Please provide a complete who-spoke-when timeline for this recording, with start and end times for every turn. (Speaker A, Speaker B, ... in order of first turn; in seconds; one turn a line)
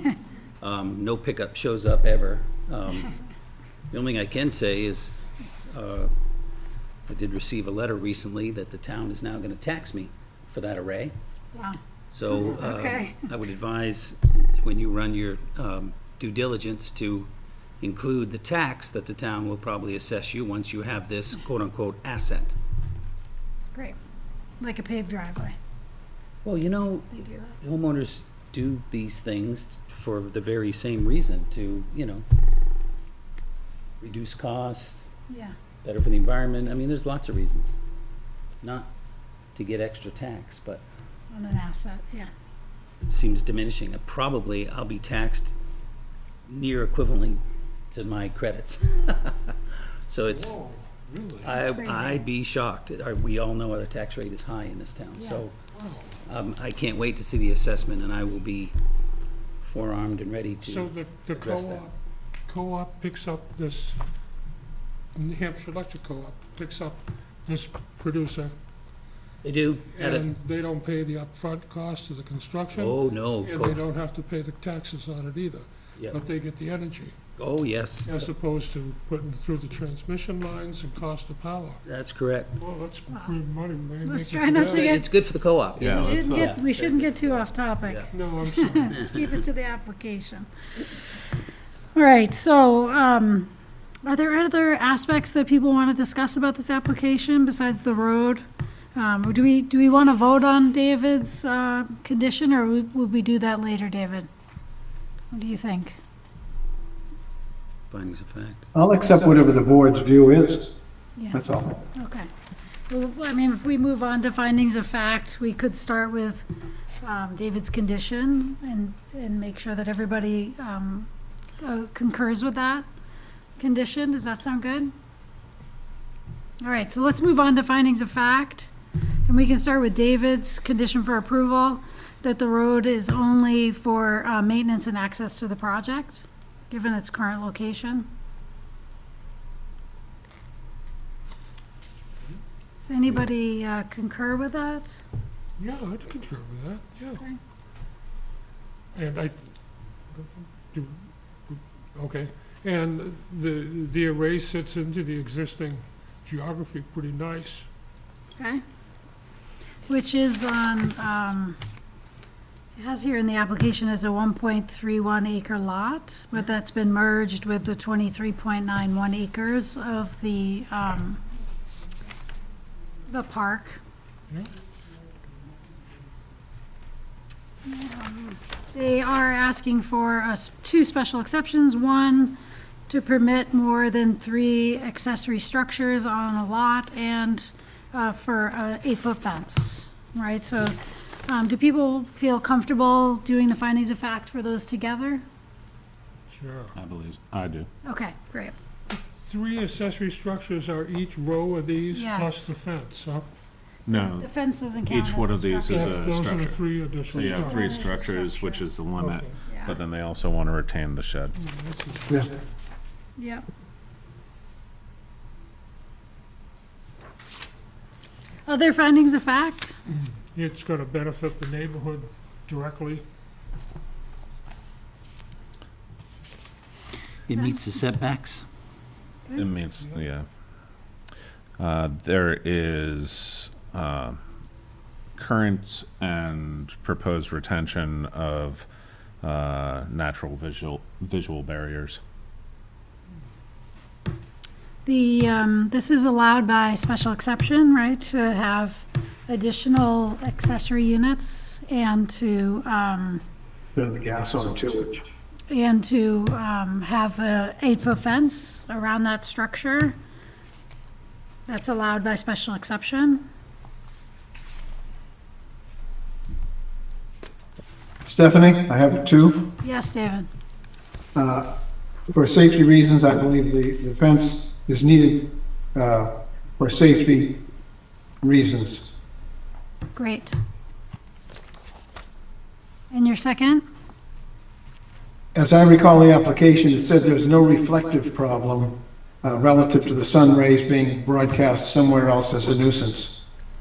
Speaker A: 0.6-3.1
Speaker A: 3.9-6.1
Speaker A: 7.1-11.1
Speaker B: 11.6-13.2
Speaker A: 12.1-17.3
Speaker A: 17.8-22.6
Speaker B: 24.6-25.6
Speaker A: 26.4-32.2
Speaker B: 27.1-27.6
Speaker A: 34.0-35.1
Speaker B: 35.3-35.5
Speaker A: 35.8-37.8
Speaker A: 38.6-38.9
Speaker A: 39.5-40.9
Speaker B: 41.3-42.3
Speaker A: 43.0-45.5
Speaker A: 46.5-47.4
Speaker A: 47.9-49.5
Speaker A: 50.1-50.6
Speaker C: 50.3-51.6
Speaker A: 51.4-55.5
Speaker B: 51.6-52.2
Speaker B: 55.2-55.4
Speaker C: 55.7-56.1
Speaker A: 56.3-58.8
Speaker A: 59.6-61.9
Speaker C: 60.6-64.0
Speaker C: 65.1-68.5
Speaker A: 69.4-70.3
Speaker C: 69.9-77.1
Speaker A: 72.7-73.8
Speaker A: 77.4-78.1
Speaker C: 78.0-81.8
Speaker A: 81.8-82.5
Speaker C: 82.6-85.0
Speaker B: 84.0-85.0
Speaker A: 84.5-88.1
Speaker D: 85.8-86.5
Speaker B: 85.8-90.5
Speaker C: 88.1-88.9
Speaker A: 88.9-89.3
Speaker B: 91.9-93.5
Speaker B: 94.0-98.4
Speaker B: 98.9-104.3
Speaker B: 105.3-106.0
Speaker A: 107.9-108.7
Speaker E: 108.7-110.7
Speaker E: 111.3-111.7
Speaker B: 111.9-112.3
Speaker B: 112.9-116.5
Speaker B: 117.0-122.8
Speaker B: 123.6-124.9
Speaker B: 126.6-128.7
Speaker B: 129.3-138.1
Speaker B: 142.8-144.9
Speaker C: 145.6-147.2
Speaker C: 148.9-149.4
Speaker C: 150.1-157.7
Speaker B: 159.9-161.6
Speaker B: 162.8-171.2
Speaker B: 173.1-173.8
Speaker B: 177.7-195.2
Speaker C: 196.3-196.8
Speaker D: 196.8-197.7
Speaker B: 197.8-198.6
Speaker C: 198.9-203.3
Speaker B: 201.9-202.5
Speaker D: 203.9-211.3
Speaker B: 203.9-206.0
Speaker C: 205.7-207.9
Speaker B: 207.2-208.7
Speaker C: 208.9-209.4
Speaker B: 209.5-209.8
Speaker C: 211.3-212.4
Speaker B: 213.2-213.4
Speaker B: 218.5-219.8
Speaker C: 220.3-223.0
Speaker A: 227.3-228.5
Speaker D: 229.3-230.3
Speaker D: 231.6-234.2
Speaker D: 235.2-238.7
Speaker D: 239.2-242.0
Speaker B: 244.8-253.2
Speaker E: 253.8-255.0
Speaker B: 255.5-259.9
Speaker B: 261.5-263.2
Speaker E: 268.0-269.4
Speaker B: 269.6-270.3
Speaker E: 271.1-271.5
Speaker E: 272.1-277.4
Speaker E: 278.2-278.9
Speaker B: 279.9-280.3
Speaker B: 282.9-283.6
Speaker E: 285.3-293.2